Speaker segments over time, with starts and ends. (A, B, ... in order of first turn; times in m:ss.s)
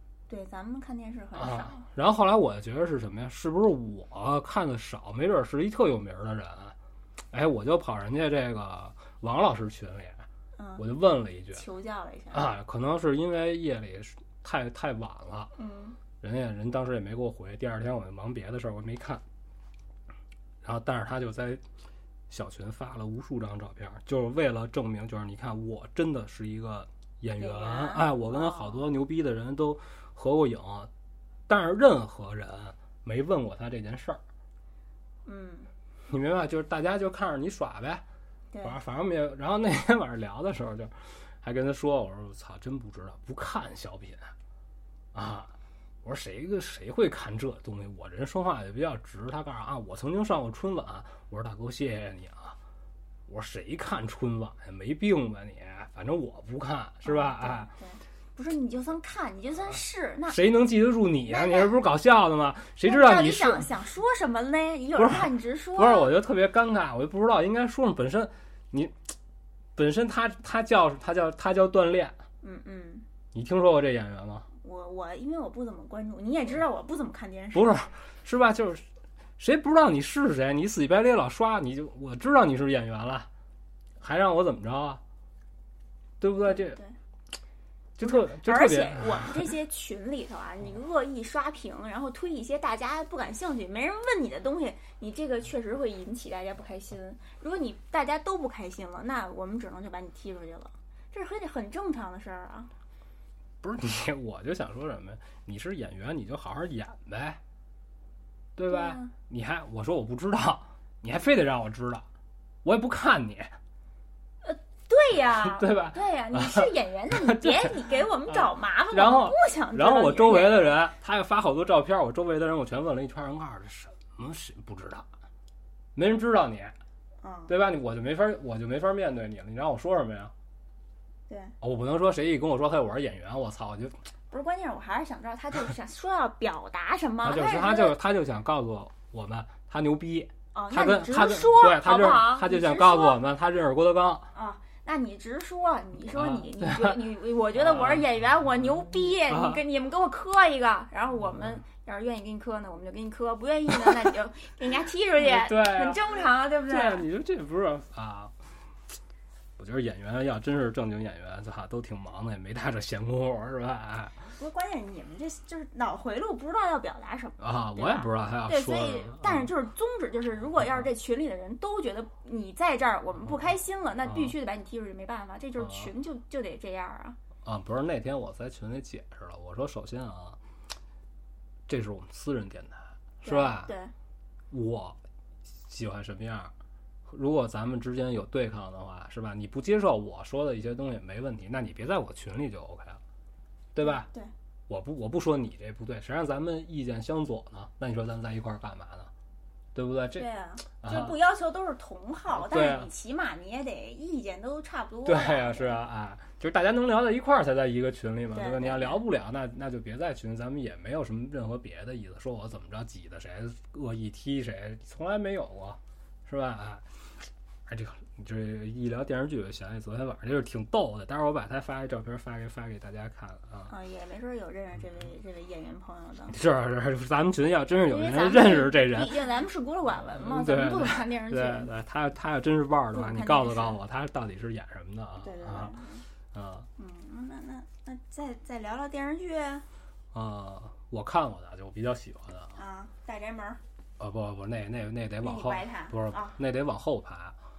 0:00.3-0:01.9 A
0:01.4-0:06.8 B
0:07.3-0:10.2 B
0:10.6-0:10.8 A
0:10.8-0:11.6 B
0:11.5-0:12.5 A
0:12.3-0:15.5 B
0:15.5-0:16.0 A
0:16.2-0:19.2 B
0:20.6-0:21.6 B
0:22.3-0:30.9 B
0:27.4-0:28.8 A
0:31.5-0:34.2 B
0:35.2-0:35.7 A
0:36.1-0:38.0 B
0:38.5-0:38.8 A
0:38.6-0:44.3 B
0:45.1-0:52.6 B
0:53.3-0:57.7 B
0:57.0-1:00.4 A
1:00.3-1:03.7 B
1:01.3-1:01.7 A
1:02.8-1:06.1 A
1:05.0-1:09.1 B
1:09.8-1:12.2 B
1:12.4-1:13.0 A
1:13.3-1:14.5 B
1:14.6-1:17.8 A
1:17.5-1:18.9 B
1:19.4-1:23.3 B
1:24.0-1:25.0 B
1:26.2-1:26.8 B
1:26.5-1:27.0 A
1:28.0-1:29.5 B
1:28.0-1:42.7 A
1:43.6-1:47.4 B
1:48.6-1:52.1 B
1:48.7-1:49.1 A
1:52.6-1:53.6 B
1:54.4-2:00.7 A
1:55.4-2:05.1 B
2:06.0-2:06.8 B
2:07.2-2:07.5 A
2:07.5-2:10.3 B
2:11.3-2:11.6 A
2:11.6-2:14.0 B
2:14.3-2:18.0 A
2:17.2-2:24.3 B
2:20.5-2:23.2 A
2:24.3-2:37.1 A
2:26.1-2:27.0 B
2:27.6-2:28.0 B
2:29.3-2:29.6 B
2:35.2-2:36.2 B
2:36.7-2:38.3 B
2:39.6-2:44.2 B
2:44.4-2:57.2 A
2:47.4-2:49.5 B
2:55.6-2:55.9 B
2:57.4-3:00.4 B
3:01.7-3:03.7 B
3:03.2-3:03.9 A
3:04.5-3:05.0 B
3:05.7-3:06.5 B
3:07.1-3:13.0 B
3:13.7-3:14.1 B
3:13.8-3:14.3 A
3:14.7-3:19.1 B
3:19.8-3:20.3 B
3:20.2-3:25.8 A
3:20.8-3:21.2 B
3:22.3-3:22.9 B
3:25.0-3:36.8 B
3:28.3-3:29.0 A
3:37.7-3:43.7 B
3:43.7-3:46.3 A
3:46.3-3:49.2 B
3:47.8-3:51.7 A
3:50.2-3:55.8 B
3:52.9-3:53.8 A
3:55.2-3:56.0 A
3:56.3-3:56.7 B
3:56.8-3:59.7 A
4:00.1-4:02.6 B
4:02.6-4:03.6 A
4:04.0-4:07.4 B
4:05.2-4:06.4 A